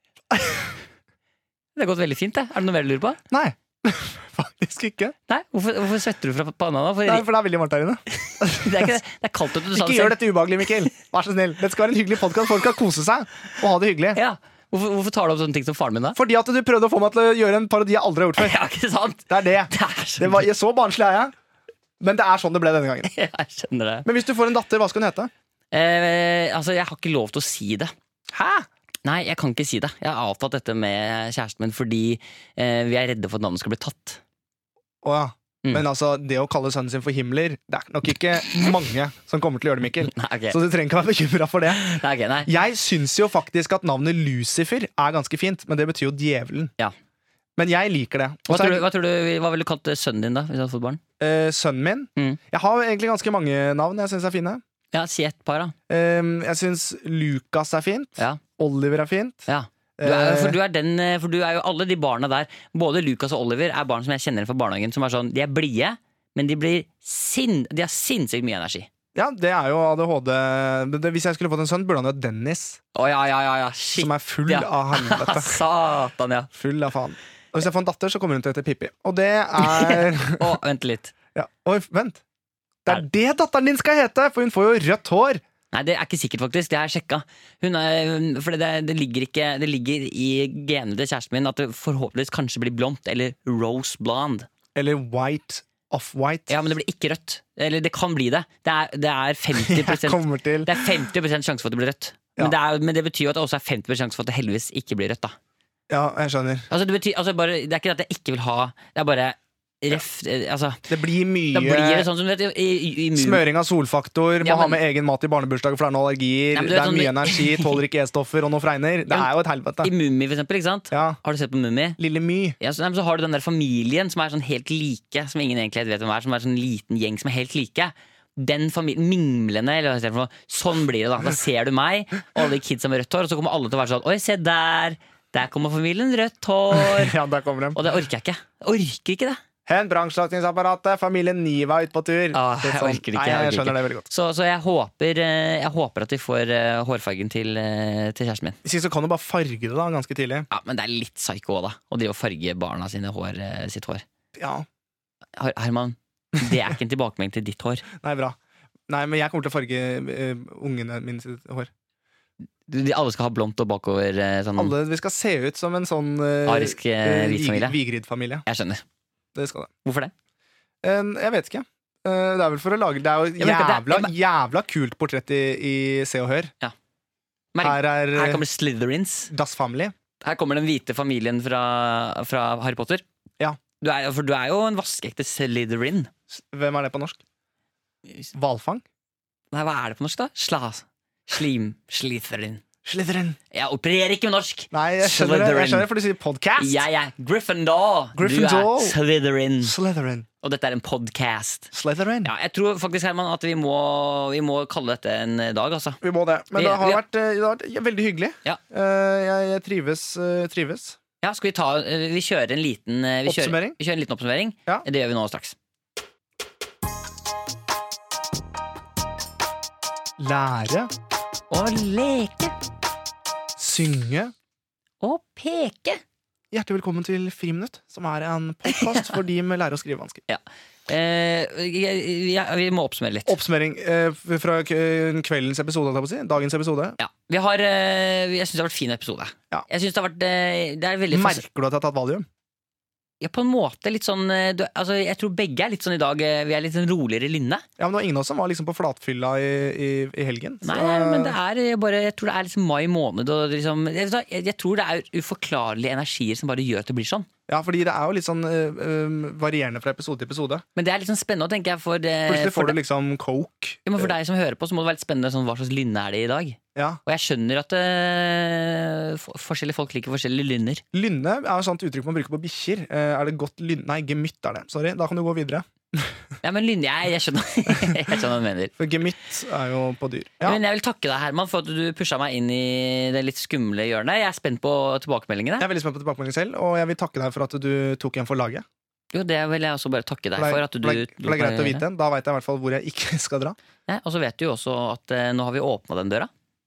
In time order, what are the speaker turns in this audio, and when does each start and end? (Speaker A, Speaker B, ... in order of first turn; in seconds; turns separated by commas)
Speaker A: 0.3-0.7, Speaker B: 1.8-3.2, Speaker A: 3.3-5.1, Speaker B: 5.3-7.2, Speaker A: 7.1-9.0, Speaker B: 8.2-10.2, Speaker A: 9.7-14.2, Speaker B: 14.1-16.2, Speaker A: 16.1-18.5, Speaker B: 18.4-20.4, Speaker A: 19.3-21.3, Speaker A: 22.0-23.1, Speaker B: 23.0-24.1, Speaker A: 24.0-25.3, Speaker B: 25.7-27.9, Speaker A: 28.3-28.7, Speaker B: 29.0-34.2, Speaker A: 35.0-46.7, Speaker B: 40.0-40.6, Speaker B: 41.7-42.5, Speaker A: 47.6-48.8, Speaker B: 48.5-51.0, Speaker A: 51.2-54.6, Speaker B: 54.9-55.7, Speaker A: 55.9-60.6, Speaker B: 59.5-68.9, Speaker A: 69.1-72.8, Speaker B: 72.9-76.5, Speaker A: 74.0-75.6, Speaker A: 76.5-80.5, Speaker B: 79.6-81.1, Speaker A: 81.3-82.2, Speaker A: 82.8-85.4, Speaker B: 85.7-94.5, Speaker A: 94.7-96.6, Speaker B: 96.5-105.3, Speaker A: 99.6-101.1, Speaker A: 105.9-106.7, Speaker B: 106.7-110.9, Speaker A: 110.9-112.1, Speaker B: 111.5-113.4, Speaker A: 113.1-119.9, Speaker B: 114.4-114.8, Speaker B: 116.5-117.8, Speaker B: 119.8-122.0, Speaker A: 120.9-121.2, Speaker A: 122.0-122.6, Speaker B: 122.6-137.2, Speaker A: 136.7-137.8, Speaker B: 137.7-139.4, Speaker A: 139.7-144.1, Speaker B: 142.3-148.6, Speaker A: 148.6-150.5, Speaker B: 150.5-154.0, Speaker A: 154.3-154.7, Speaker B: 155.4-157.8, Speaker A: 158.0-158.4, Speaker A: 158.9-161.7, Speaker B: 162.7-164.7, Speaker A: 164.6-168.4, Speaker B: 166.4-167.8, Speaker B: 168.4-168.8, Speaker A: 169.3-169.7, Speaker B: 169.8-170.1, Speaker A: 170.8-176.5, Speaker B: 173.4-174.1, Speaker B: 177.5-179.3, Speaker A: 177.6-178.4, Speaker A: 179.3-179.9, Speaker B: 180.2-183.0, Speaker B: 183.8-186.1, Speaker A: 186.3-187.2, Speaker A: 188.3-188.8, Speaker B: 189.5-192.6, Speaker A: 192.8-193.4, Speaker B: 193.5-195.9, Speaker A: 194.7-196.8, Speaker B: 196.6-199.7, Speaker A: 198.2-199.0, Speaker A: 199.6-200.2, Speaker B: 200.4-201.7, Speaker A: 201.7-202.3, Speaker B: 202.2-206.0, Speaker A: 206.0-211.0, Speaker B: 206.5-207.0, Speaker B: 211.2-215.6, Speaker A: 213.2-213.8, Speaker A: 220.2-220.9, Speaker B: 221.5-222.5, Speaker A: 223.6-224.3, Speaker B: 225.0-226.0, Speaker A: 226.5-230.2, Speaker B: 228.7-229.1, Speaker B: 230.3-233.4, Speaker A: 233.3-237.0, Speaker B: 237.0-241.4, Speaker A: 241.1-242.2, Speaker B: 243.2-247.6, Speaker A: 247.8-251.3, Speaker B: 250.6-257.3, Speaker A: 257.5-260.6, Speaker B: 260.8-262.8, Speaker A: 262.3-264.1, Speaker B: 263.9-270.8, Speaker A: 266.7-267.0, Speaker A: 270.9-276.1, Speaker B: 276.4-278.7, Speaker A: 278.8-280.6, Speaker B: 280.4-285.7, Speaker A: 285.6-288.6, Speaker B: 289.1-291.8, Speaker A: 290.4-293.6, Speaker B: 293.9-296.3